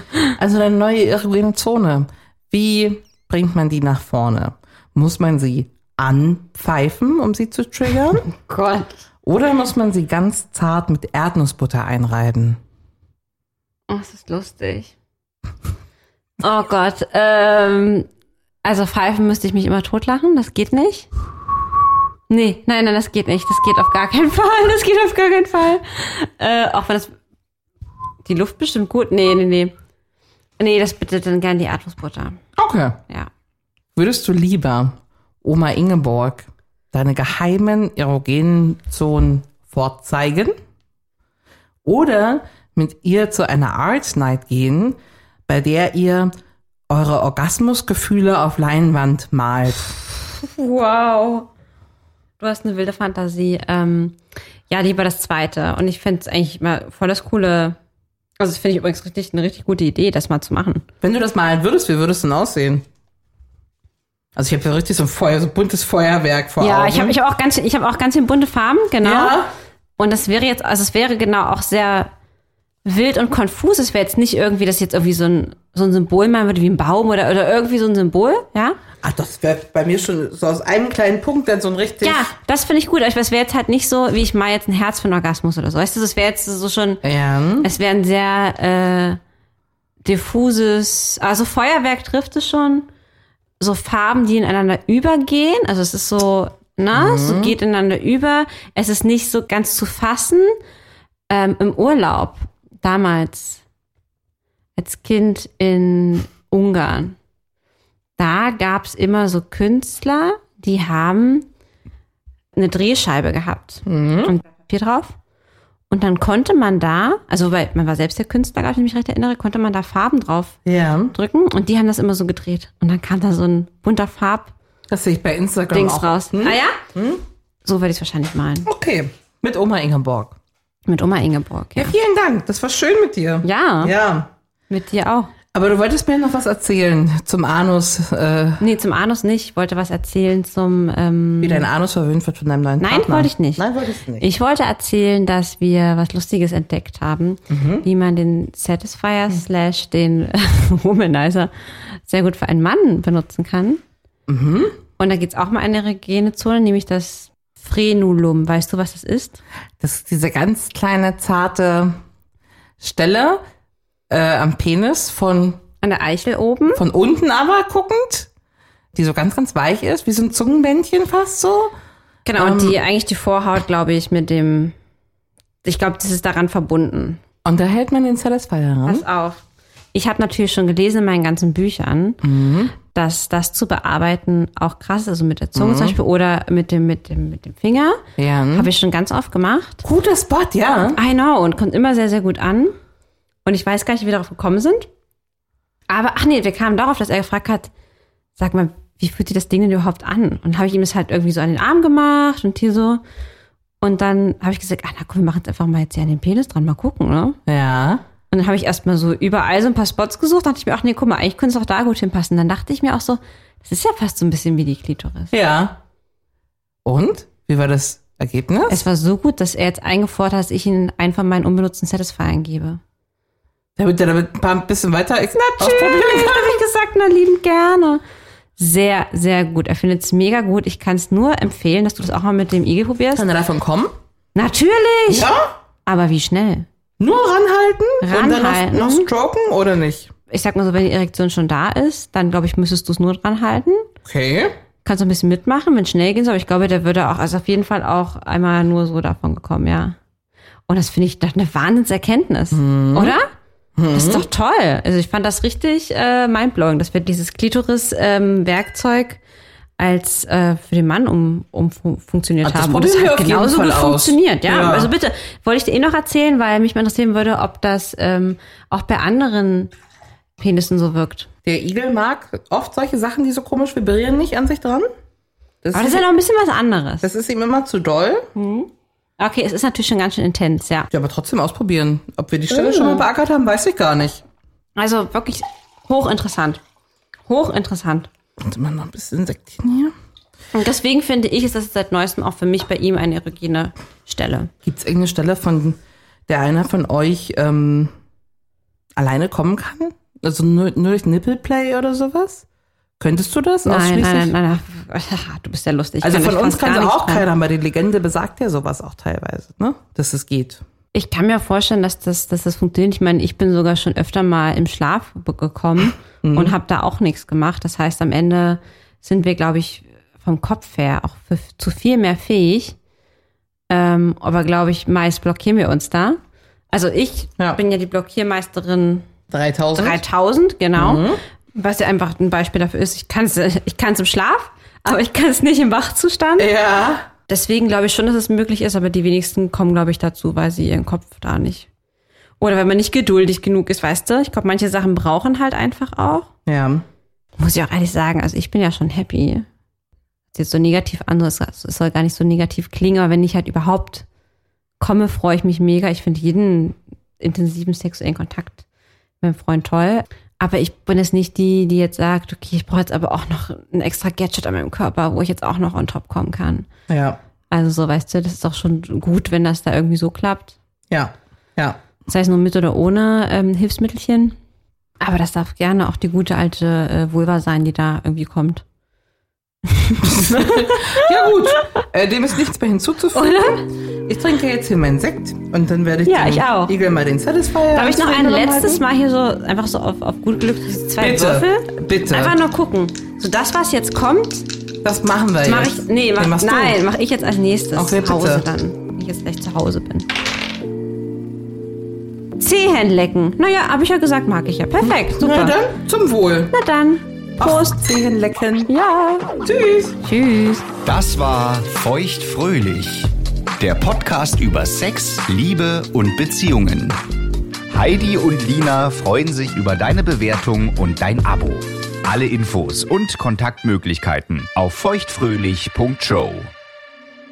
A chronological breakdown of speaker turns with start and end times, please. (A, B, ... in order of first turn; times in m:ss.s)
0:00.4-0:08.2 A
0:08.2-0:09.0 B
0:09.2-0:12.6 A
0:13.9-0:14.9 B
0:16.4-0:18.1 B
0:18.6-0:21.1 B
0:22.3-0:27.1 B
0:28.2-0:29.7 B
0:30.6-0:32.4 B
0:32.6-0:33.0 A
0:33.9-0:40.6 A
0:41.8-0:46.3 A
0:46.9-0:49.9 A
0:50.2-0:51.5 B
0:52.4-0:54.2 B
0:54.7-0:57.8 B
0:58.4-1:00.8 B
1:01.0-1:02.8 A
1:04.3-1:07.2 A
1:06.6-1:09.4 B
1:09.0-1:09.5 A
1:10.0-1:12.1 B
1:12.8-1:18.8 B
1:19.0-1:22.3 A
1:22.0-1:27.0 B
1:27.0-1:27.7 A
1:27.6-1:29.2 B
1:30.0-1:32.9 B
1:33.6-1:40.6 B
1:36.9-1:37.6 A
1:41.3-1:43.6 B
1:44.8-1:47.2 B
1:48.2-1:51.4 B
1:52.5-1:55.2 B
1:53.8-1:54.3 A
1:55.9-2:00.6 B
2:00.6-2:01.1 A
2:01.1-2:04.5 B
2:04.9-2:07.2 A
2:05.7-2:06.8 B
2:07.6-2:08.7 B
2:08.6-2:10.4 A
2:10.9-2:11.9 B
2:11.7-2:14.3 A
2:13.4-2:13.9 B
2:14.7-2:15.3 B
2:15.5-2:18.6 A
2:18.6-2:21.7 B
2:21.4-2:24.3 A
2:22.8-2:23.6 B
2:24.2-2:33.8 B
2:27.5-2:27.9 A
2:34.3-2:34.8 A
2:35.0-2:39.4 B
2:39.8-2:42.0 A
2:42.8-2:43.4 A
2:44.1-2:45.6 A
2:45.8-2:46.8 B
2:46.7-2:48.3 A
2:48.9-2:51.7 A
2:52.2-2:54.7 B
2:52.4-2:52.8 A
2:55.6-2:57.2 B
2:57.4-2:59.0 A
2:58.8-2:59.4 B
2:59.9-3:02.2 B
3:02.2-3:02.7 A
3:02.8-3:08.0 B
3:05.5-3:06.0 A
3:08.2-3:08.7 A
3:08.5-3:09.8 B
3:09.8-3:11.0 A
3:10.9-3:12.7 B
3:13.4-3:14.9 B
3:15.9-3:17.7 B
3:18.4-3:23.0 B
3:23.8-3:27.4 B
3:27.4-3:28.0 A
3:28.3-3:35.3 B
3:35.3-3:35.8 A
3:36.8-3:38.8 A
3:38.7-3:42.8 B
3:43.8-3:46.6 A
3:45.3-3:48.0 B
3:48.6-3:53.2 B
3:53.1-3:53.9 A
3:54.3-3:55.3 B
3:55.1-3:55.5 A
3:55.8-3:56.6 B
3:57.0-4:00.1 A
3:58.0-3:59.1 B
4:00.3-4:03.9 B
4:04.0-4:04.5 A
4:04.8-4:10.0 B
4:10.7-4:13.3 B
4:12.5-4:13.2 A
4:13.8-4:14.2 A
4:13.9-4:19.2 B
4:19.8-4:29.7 B
4:22.4-4:24.9 A
4:30.4-4:31.3 B
4:31.4-4:34.9 A
4:35.6-4:36.1 A
4:35.7-4:37.1 B
4:37.0-4:38.3 A
4:38.3-4:40.9 B
4:40.9-4:44.2 A
4:42.5-4:43.0 B
4:44.8-4:46.6 B
4:47.3-4:48.1 B
4:48.4-4:49.9 A
4:50.5-4:54.5 B
4:54.6-4:57.9 A
4:59.0-5:02.4 A
5:03.0-5:04.3 A
5:03.6-5:07.2 B
5:06.0-5:10.6 A
5:10.9-5:22.8 B
5:16.2-5:16.6 A
5:23.7-5:26.2 B
5:26.7-5:29.1 B
5:29.3-5:30.0 A
5:29.8-5:36.5 B
5:30.8-5:31.2 A
5:36.4-5:37.1 A
5:37.3-5:41.7 B
5:42.4-5:46.3 B
5:46.4-5:46.8 A
5:47.4-5:49.4 B
5:50.3-5:54.0 B
5:54.8-5:58.6 B
5:59.2-6:06.7 B
6:06.9-6:07.2 A
6:07.5-6:10.6 B
6:10.9-6:11.8 A
6:12.1-6:14.4 B
6:15.0-6:18.6 B
6:19.7-6:21.1 B
6:20.2-6:28.8 A
6:23.1-6:23.6 B
6:26.0-6:26.7 B
6:27.7-6:34.5 B
6:31.0-6:32.4 A
6:34.8-6:36.8 A
6:35.4-6:40.0 B
6:37.7-6:38.4 A
6:42.4-6:45.6 B
6:44.8-6:46.5 A
6:46.5-6:47.8 B
6:47.4-6:48.7 A
6:48.7-6:49.3 B
6:49.4-6:50.0 A
6:50.0-6:50.6 B
6:50.8-6:57.0 C
6:57.7-7:06.5 C